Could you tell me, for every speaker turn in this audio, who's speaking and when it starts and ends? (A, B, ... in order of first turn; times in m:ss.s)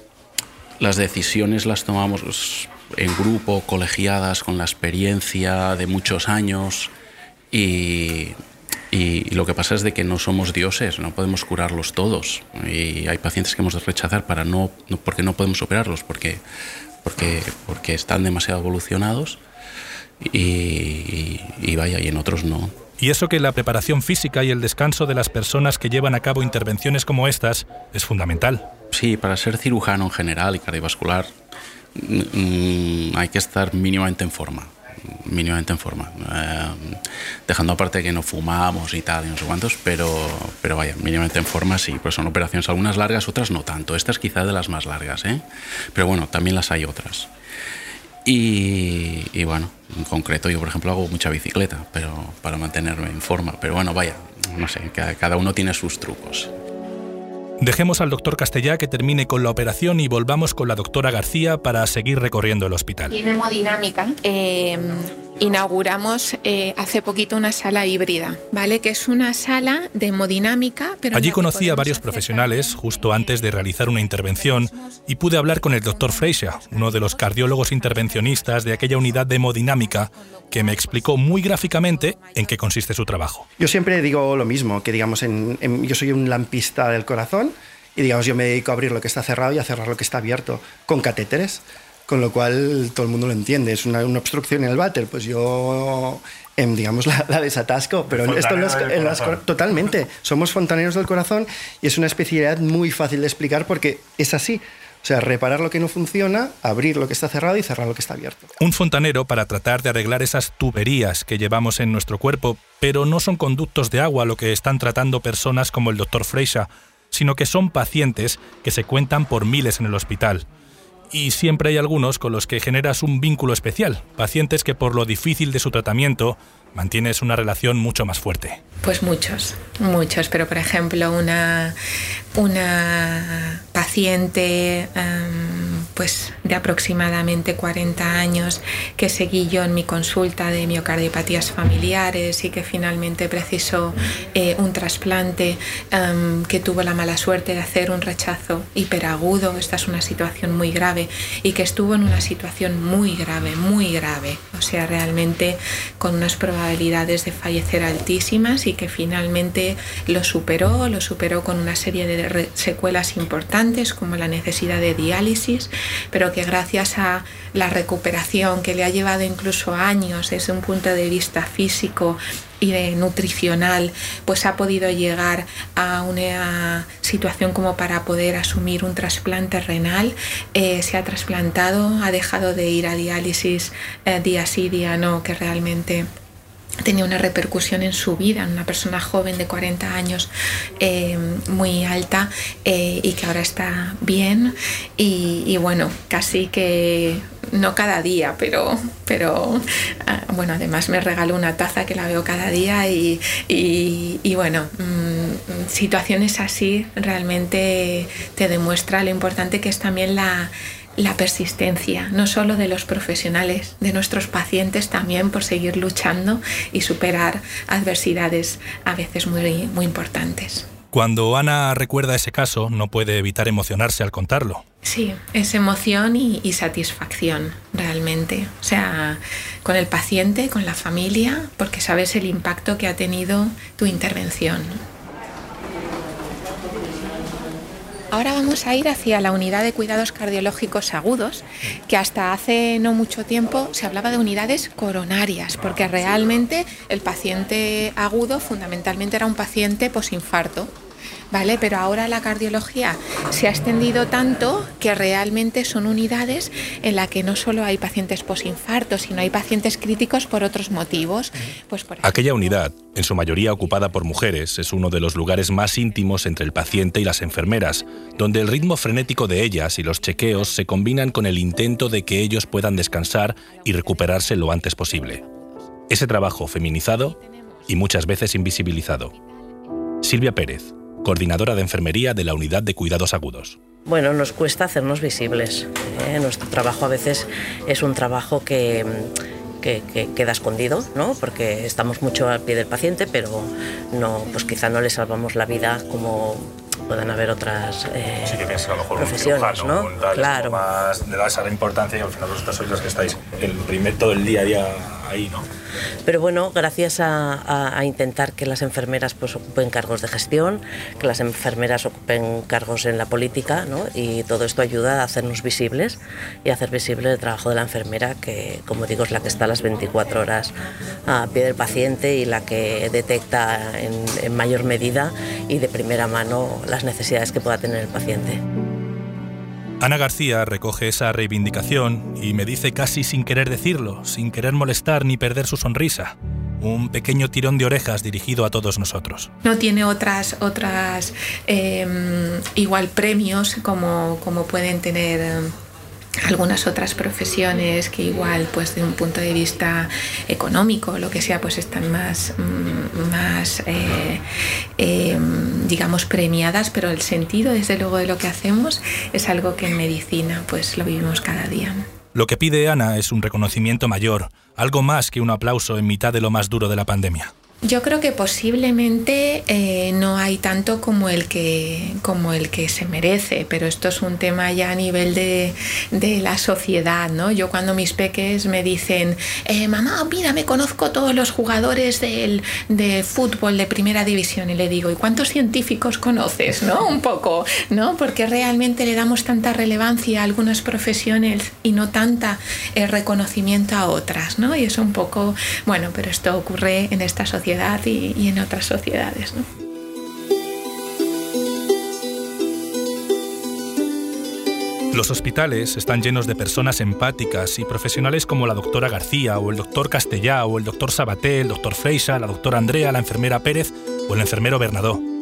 0:00.8-0:06.9 A
0:07.5-0:08.3 A
0:08.9-0:16.4 A
0:17.0-0:19.4 A
0:20.2-0:22.7 A
0:23.0-0:28.7 B
0:28.9-0:31.3 A
0:32.0-0:45.4 A
0:45.9-0:47.3 A
0:48.2-0:56.5 A
0:57.6-1:03.1 B
1:03.1-1:22.6 C
1:11.1-1:23.4 B
1:23.6-1:48.5 D
1:48.6-2:00.4 B
2:01.1-2:08.6 B
2:08.8-2:11.8 C
2:12.4-3:06.1 C
3:06.8-3:40.7 C
3:40.9-3:44.6 B
3:44.8-3:54.8 C
3:58.1-4:10.7 C
4:11.3-4:22.4 C
4:22.0-4:35.2 B
4:26.5-4:27.6 C
4:28.8-4:29.4 C
4:29.9-4:30.3 C
4:31.8-4:32.9 C
4:33.6-4:35.6 C
4:35.9-4:37.2 B
4:37.0-4:37.4 C
4:37.7-4:39.1 B
4:40.0-4:43.6 B
4:43.8-4:58.4 E
4:58.3-5:05.5 B
4:58.9-5:00.6 E
5:06.0-5:20.5 E
5:21.1-5:28.4 E
5:29.8-5:39.3 B
5:39.4-5:45.5 C
5:46.3-5:54.2 C
5:54.8-6:01.8 C
6:02.1-6:07.3 B
6:07.6-6:39.4 C
6:44.9-6:55.0 B